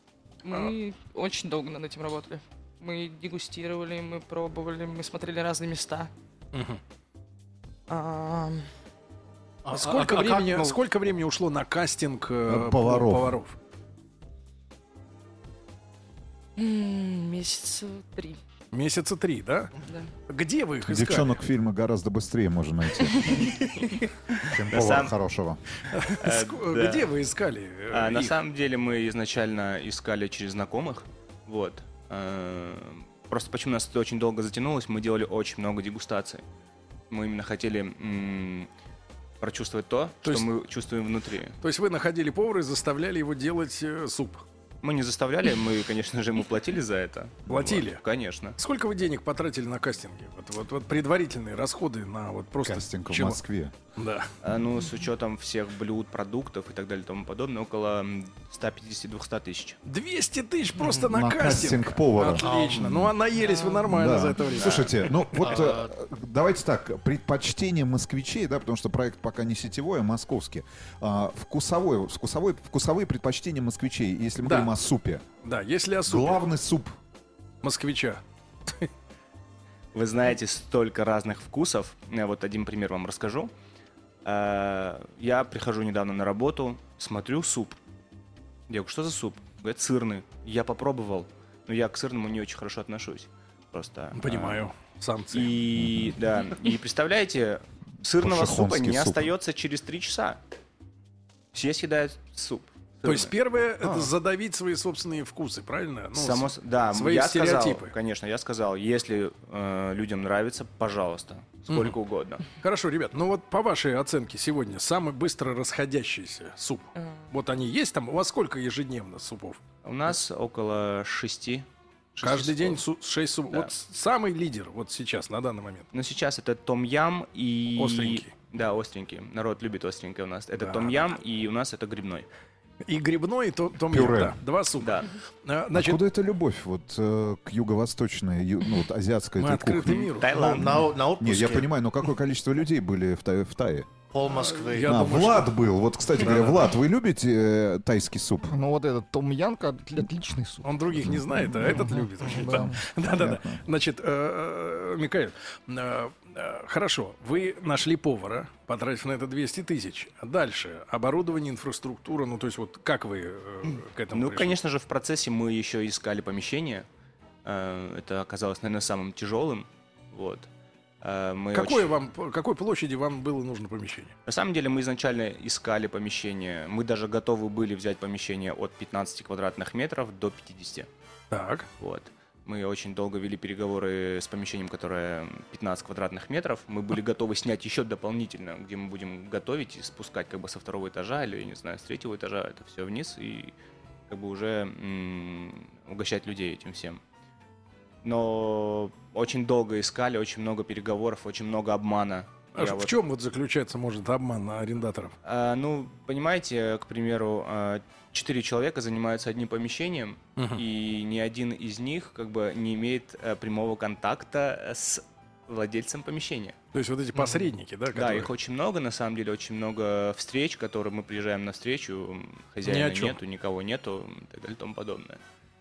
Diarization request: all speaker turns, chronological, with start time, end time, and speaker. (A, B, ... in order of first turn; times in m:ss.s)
0:00.4-0:06.1 A
0:06.5-0:06.8 B
0:07.9-0:08.7 A
0:09.6-0:10.8 C
0:09.7-0:13.6 B
0:12.5-0:13.4 D
0:16.6-0:18.4 A
0:18.7-0:19.7 B
0:20.3-0:21.4 B
0:20.9-0:23.5 D
0:23.6-0:25.1 E
0:24.5-0:25.6 D
0:25.9-0:28.4 B
0:26.2-0:27.1 E
0:27.9-0:36.4 E
0:37.1-0:38.7 E
0:39.4-0:41.6 E
0:40.2-0:40.5 B
0:41.6-0:44.4 B
0:44.8-0:48.6 E
0:47.5-0:48.0 B
0:48.6-0:53.4 B
0:52.6-0:53.8 D
0:54.0-0:54.3 B
0:54.4-0:59.8 E
0:59.8-1:04.9 B
1:00.8-1:01.1 C
1:01.1-1:03.1 D
1:02.4-1:03.1 C
1:03.4-1:03.9 A
1:03.9-1:15.2 D
1:04.6-1:04.9 E
1:05.4-1:05.9 C
1:14.4-1:14.8 B
1:15.4-1:16.4 B
1:16.1-1:16.9 D
1:17.6-1:18.9 B
1:19.9-1:23.5 E
1:24.2-1:27.8 E
1:28.7-1:34.7 E
1:34.1-1:35.5 B
1:35.3-1:40.4 E
1:38.2-1:39.3 D
1:41.5-1:43.3 E
1:43.0-1:47.9 B
1:43.8-1:44.1 C
1:46.1-1:52.5 E
1:51.7-1:52.0 B
1:52.6-1:59.6 B
1:59.8-2:02.8 E
2:02.2-2:05.9 B
2:05.9-2:12.3 E
2:07.8-2:08.3 B
2:10.6-2:11.0 B
2:12.8-2:16.0 B
2:13.9-2:14.4 D
2:14.8-2:15.2 E
2:15.7-2:23.9 D
2:19.4-2:20.6 B
2:19.9-2:20.7 E
2:20.3-2:21.7 C
2:24.1-2:25.2 C
2:24.3-2:25.5 B
2:24.8-2:28.7 D
2:26.2-2:26.7 B
2:28.6-2:30.7 F
2:30.6-2:44.6 B
2:31.0-2:33.6 D
2:32.4-2:32.7 F
2:44.1-2:46.9 E
2:47.4-2:50.5 E
2:51.0-2:51.9 E
2:51.5-2:54.1 B
2:54.3-3:00.9 E
3:01.3-3:01.7 B
3:01.8-3:13.5 E
3:14.1-3:17.0 E
3:18.0-3:23.0 E
3:22.6-3:25.1 B
3:25.2-3:36.6 E
3:30.4-3:30.6 B
3:36.7-3:38.3 B
3:37.2-3:37.5 C
3:37.9-3:45.2 E
3:42.6-3:43.2 B